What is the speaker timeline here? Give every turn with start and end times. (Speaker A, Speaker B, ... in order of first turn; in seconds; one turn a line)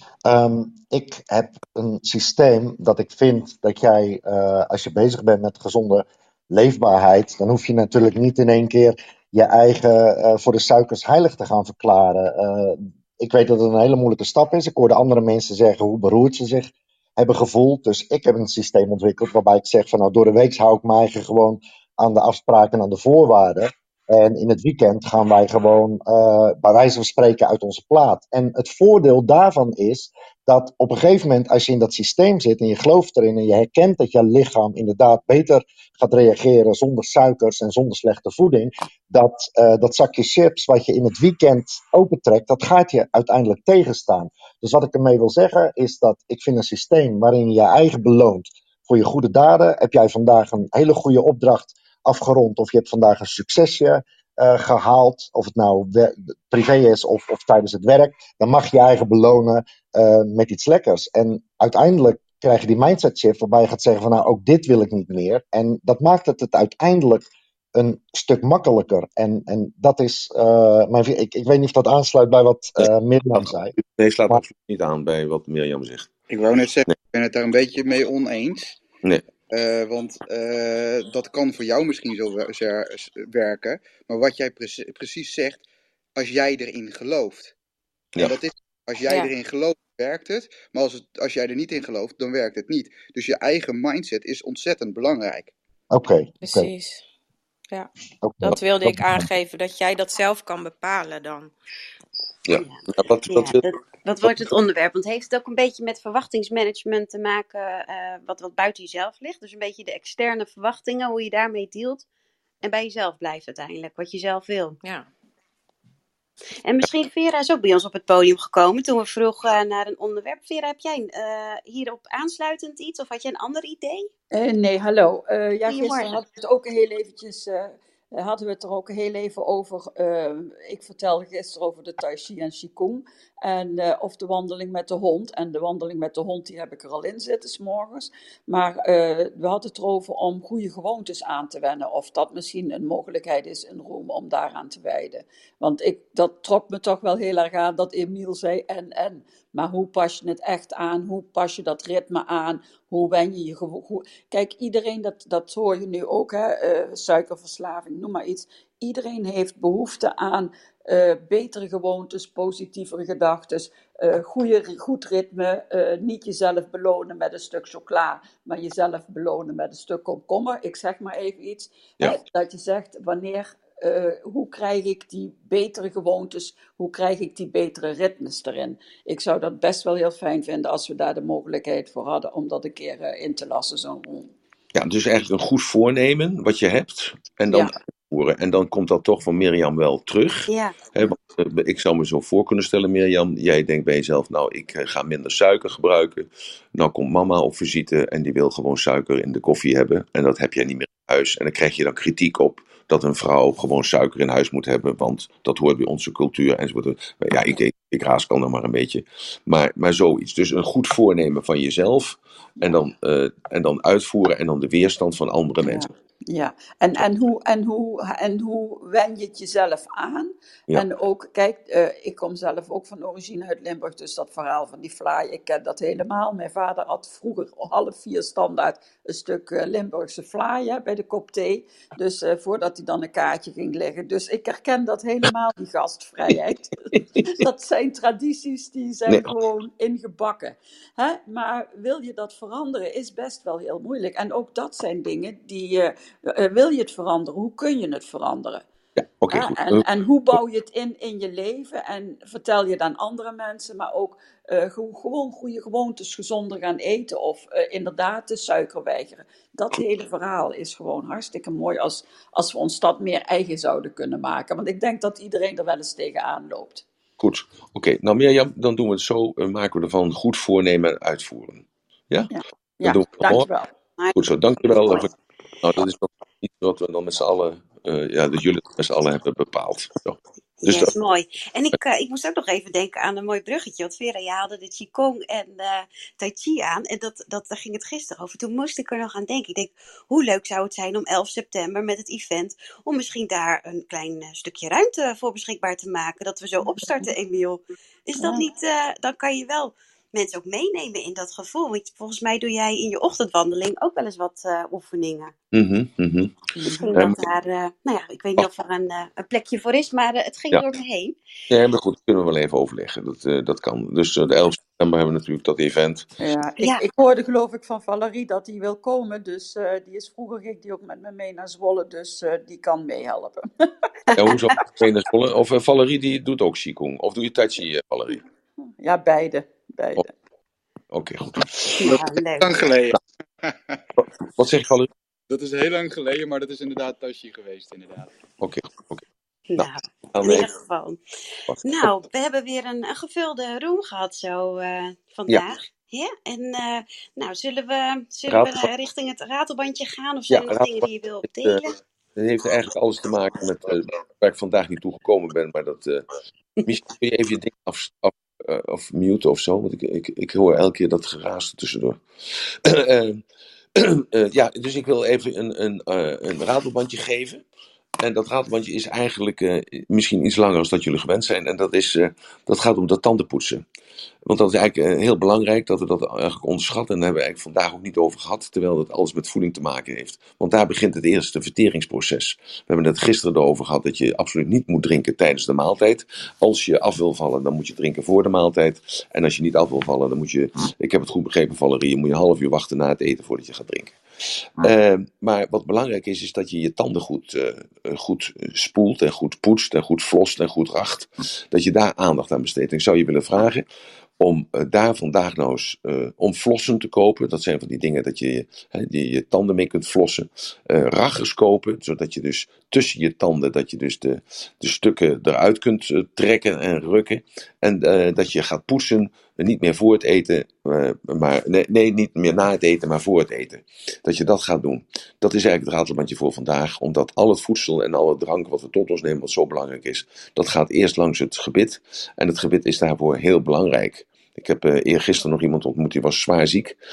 Speaker A: 0.2-73.7
Speaker B: 73.8-76.1
Speaker C: 76.3-78.8
Speaker C: 79.5-85.6
Speaker C: 86.2-87.5
Speaker C: 88.2-95.5
Speaker A: 95.9-96.7
Speaker D: 96.4-97.0
Speaker A: 98.2-99.3
Speaker D: 98.4-101.5
Speaker B: 102.5-103.6
Speaker E: 102.5-112.0
Speaker E: 112.6-114.8
Speaker D: 114.8-115.1
Speaker E: 116.6-124.1
Speaker F: 124.3-184.3
Speaker E: 125.7-126.1
Speaker B: 184.7-215.9
Speaker E: 190.5-190.8
Speaker F: 215.6-248.6
Speaker B: 236.9-237.3
Speaker B: 239.1-239.3
Speaker B: 249.0-249.8
Speaker F: 249.3-266.8
Speaker B: 267.2-273.5
Speaker F: 272.3-273.7
Speaker E: 274.0-275.1
Speaker B: 274.1-275.1
Speaker B: 275.6-280.9
Speaker E: 280.6-305.3
Speaker F: 296.7-297.0
Speaker F: 298.2-298.4
Speaker B: 305.5-307.2
Speaker F: 306.6-307.0
Speaker E: 306.7-311.1
Speaker B: 311.5-316.1
Speaker F: 316.2-323.9
Speaker E: 316.6-316.9
Speaker E: 324.1-324.5
Speaker B: 324.1-328.2
Speaker F: 328.8-330.1
Speaker B: 330.9-332.0
Speaker E: 331.8-332.7
Speaker C: 331.8-333.8
Speaker B: 334.0-334.9
Speaker C: 335.3-338.1
Speaker B: 338.4-339.0
Speaker E: 339.5-341.0
Speaker B: 339.6-340.5
Speaker B: 341.5-341.9
Speaker E: 341.6-351.8
Speaker B: 348.3-348.7
Speaker B: 350.3-351.6
Speaker B: 352.1-363.2
Speaker B: 363.7-367.4
Speaker B: 368.0-373.6
Speaker B: 374.2-394.0
Speaker B: 394.6-403.6
Speaker B: 404.2-436.8